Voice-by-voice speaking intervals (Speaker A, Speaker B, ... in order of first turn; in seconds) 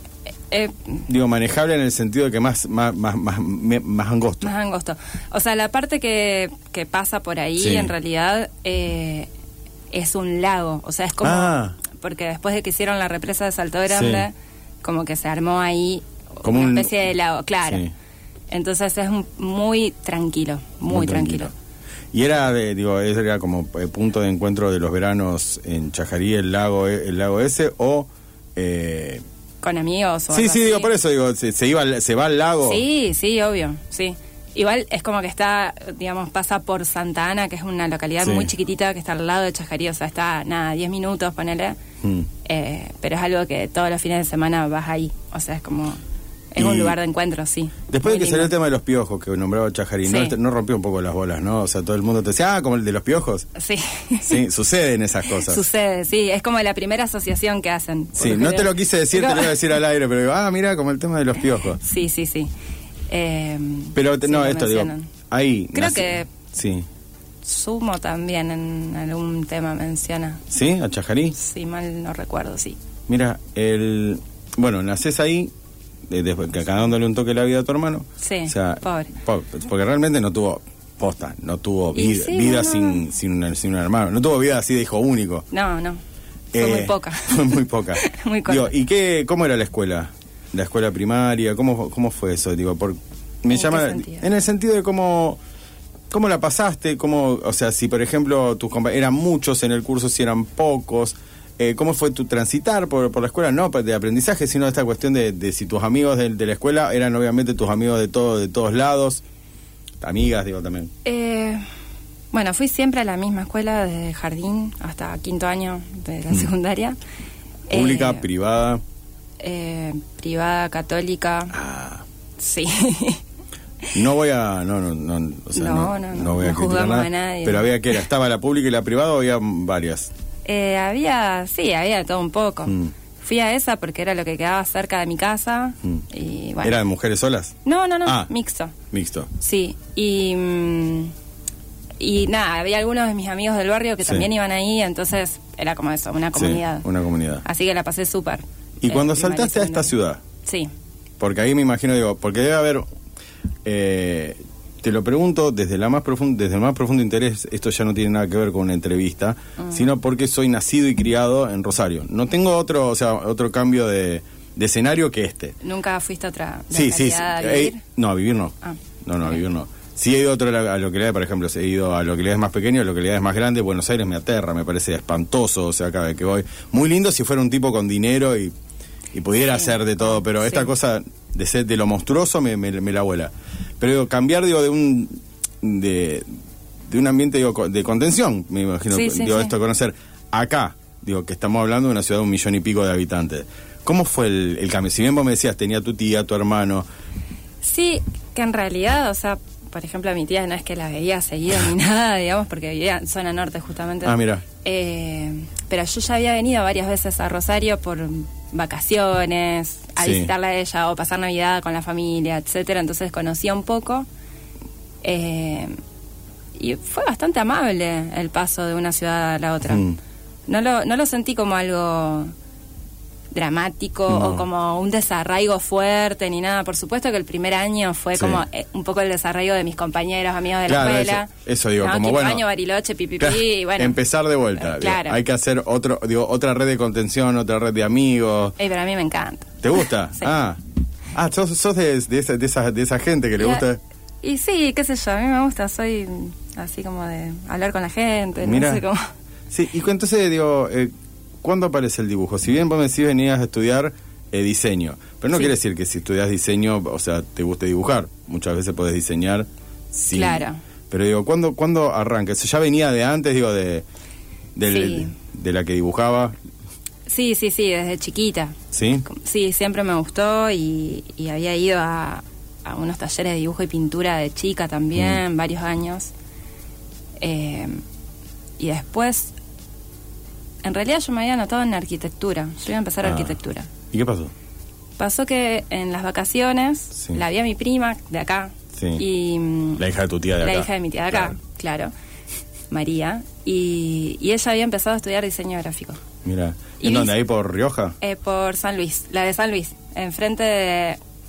Speaker A: 0.5-1.1, 4.4-9.3, 9.9-17.9, 18.5-21.5, 29.6-30.9, 32.6-41.8, 42.4-46.0, 46.5-48.5, 50.0-50.4, 53.6-54.4, 55.3-59.6, 61.8-62.5, 63.1-65.1, 65.7-66.3, 67.4-70.4, 71.4-72.8, 78.2-79.1, 82.0-83.0, 85.5-86.0, 86.6-88.7, 93.5-94.3, 111.0-111.6, 112.3-117.0, 117.7-118.2, 119.4-121.5, 122.4-123.2, 125.5-128.0, 130.4-136.8, 137.7-138.7, 139.4-141.1, 142.0-146.9, 147.4-149.9, 150.4-150.7, 159.6-159.8, 165.6-167.8, 168.6-169.4, 179.5-180.7, 188.9-189.5, 197.6-214.1, 215.0-215.8, 216.6-219.8, 220.5-222.3, 223.3-234.0, 234.6-235.2, 238.6-240.3, 243.4-243.7, 244.2-249.0, 260.1-260.6, 264.7-265.1, 267.1-276.1, 277.2-277.8, 278.6-279.3, 280.6-283.7, 285.0-289.8, 290.4-291.9, 292.7-296.0, 296.8-297.1, 298.0-301.0
Speaker B: 1.1-4.5, 7.6-7.9, 11.2-11.8, 13.9-14.3, 16.4-17.0, 17.7-17.9, 20.9-21.5, 22.1-29.2, 30.3-32.8, 38.2-38.5, 42.0-42.3, 46.6-47.0, 47.9-53.5, 54.2-55.6, 58.2-61.8, 64.0-66.9, 70.5-71.4, 73.1-75.5, 76.1-85.5, 86.5-95.4, 96.1-109.2, 110.0-110.9, 117.7-118.8, 121.5-122.0, 123.9-130.1, 132.7-132.9, 136.6-138.3, 138.9-139.3, 146.4-147.4, 148.8-150.2, 151.2-152.9, 153.7-165.6, 166.7-178.5, 179.1-186.3, 186.9-196.9, 204.0-204.4, 210.0-210.3, 219.7-220.0, 224.1-224.4, 228.2-228.4, 230.7-232.4, 233.2-238.6, 239.6-240.6, 241.1-243.8, 248.4-248.8, 249.5-250.9, 251.4-263.9, 264.6-266.4, 268.7-269.1, 283.0-283.4, 283.9-284.3, 288.7-289.0, 289.8-291.4, 296.2-298.0